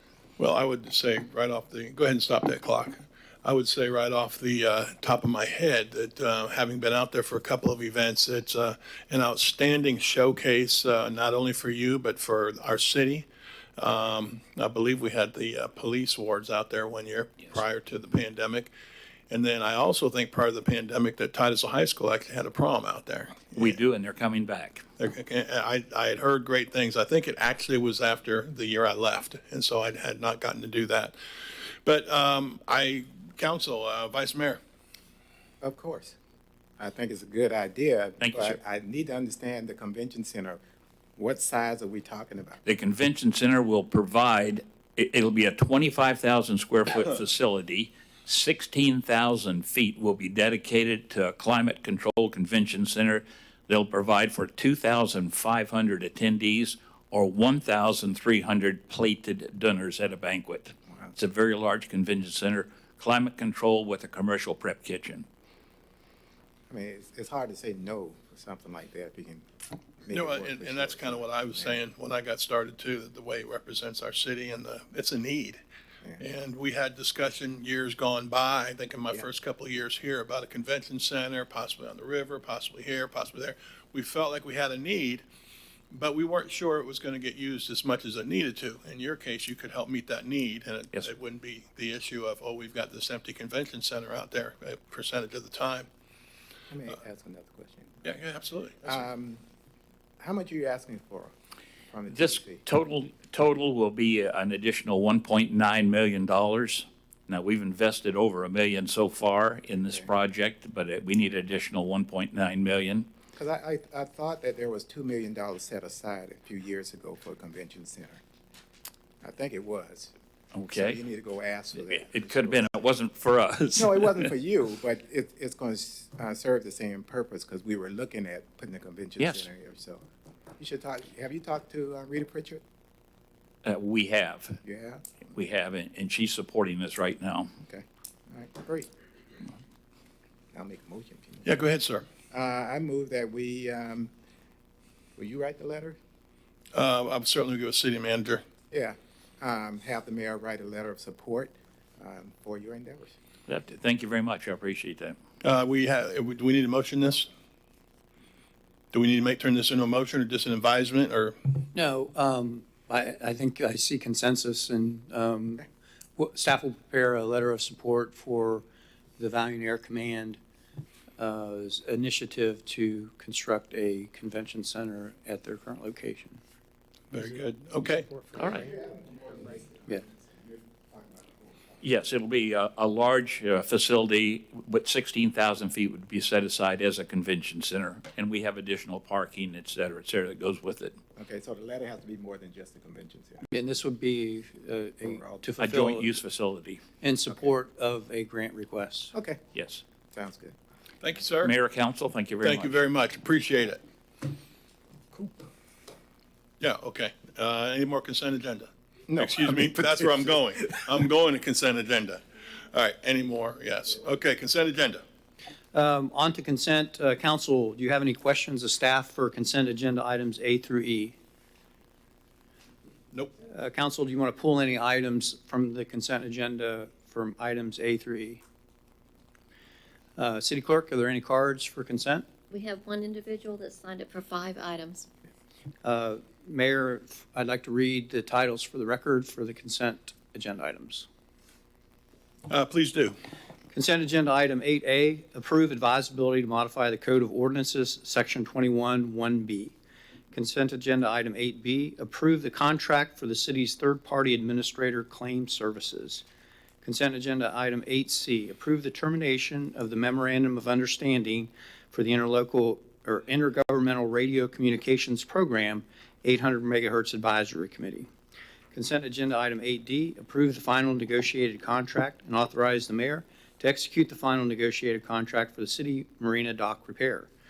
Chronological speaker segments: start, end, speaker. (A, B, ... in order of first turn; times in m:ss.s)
0:00.4-0:13.2 A
0:13.8-0:18.7 A
0:19.3-0:23.5 A
0:23.5-0:24.8 B
0:25.0-0:34.6 A
0:35.6-0:36.2 C
0:36.8-0:40.6 C
0:38.2-0:38.6 B
0:41.2-0:42.6 C
0:42.6-1:05.2 B
1:06.7-1:11.8 C
1:10.1-1:15.6 A
1:16.2-1:25.2 A
1:25.9-1:35.9 A
1:36.7-1:38.0 C
1:38.0-1:39.0 A
1:38.8-1:39.4 C
1:40.2-1:41.3 C
1:41.9-1:42.6 C
1:42.1-1:53.1 B
1:53.3-1:58.2 C
1:59.2-2:00.1 C
2:00.5-2:01.0 B
2:00.7-2:02.7 C
2:01.8-2:04.3 B
2:03.7-2:10.0 C
2:09.2-2:09.5 B
2:10.6-2:12.6 C
2:13.6-2:14.6 B
2:14.6-2:15.0 C
2:15.3-2:17.5 B
2:17.7-2:18.9 C
2:20.5-2:21.6 C
2:21.4-2:22.0 A
2:22.3-2:24.1 C
2:25.2-2:26.0 C
2:26.7-2:28.4 A
2:28.7-2:33.1 C
2:33.5-2:35.2 B
2:35.4-2:37.3 A
2:38.9-2:41.6 A
2:41.7-2:48.6 D
2:49.2-2:50.4 D
2:51.2-2:56.4 D
2:57.1-2:58.1 A
2:58.3-3:01.8 C
2:58.4-2:58.6 B
3:01.8-3:11.0 B
3:11.2-3:13.5 C
3:13.5-3:16.2 D
3:15.0-3:15.4 C
3:15.6-3:16.8 B
3:17.0-3:19.1 D
3:19.1-3:19.4 C
3:19.5-3:19.8 B
3:20.1-3:20.5 C
3:21.0-3:21.5 A
3:21.4-3:22.7 B
3:22.4-3:23.8 A
3:26.6-3:35.0 A
3:29.1-3:30.0 C
3:35.7-3:41.2 D
3:43.4-3:48.4 D
3:50.2-3:52.3 D
3:52.5-3:55.1 E
3:55.8-4:01.1 D
4:02.5-4:03.2 A
4:03.7-4:09.8 D
4:10.3-4:16.2 D
4:16.8-4:28.1 D
4:28.7-4:37.3 D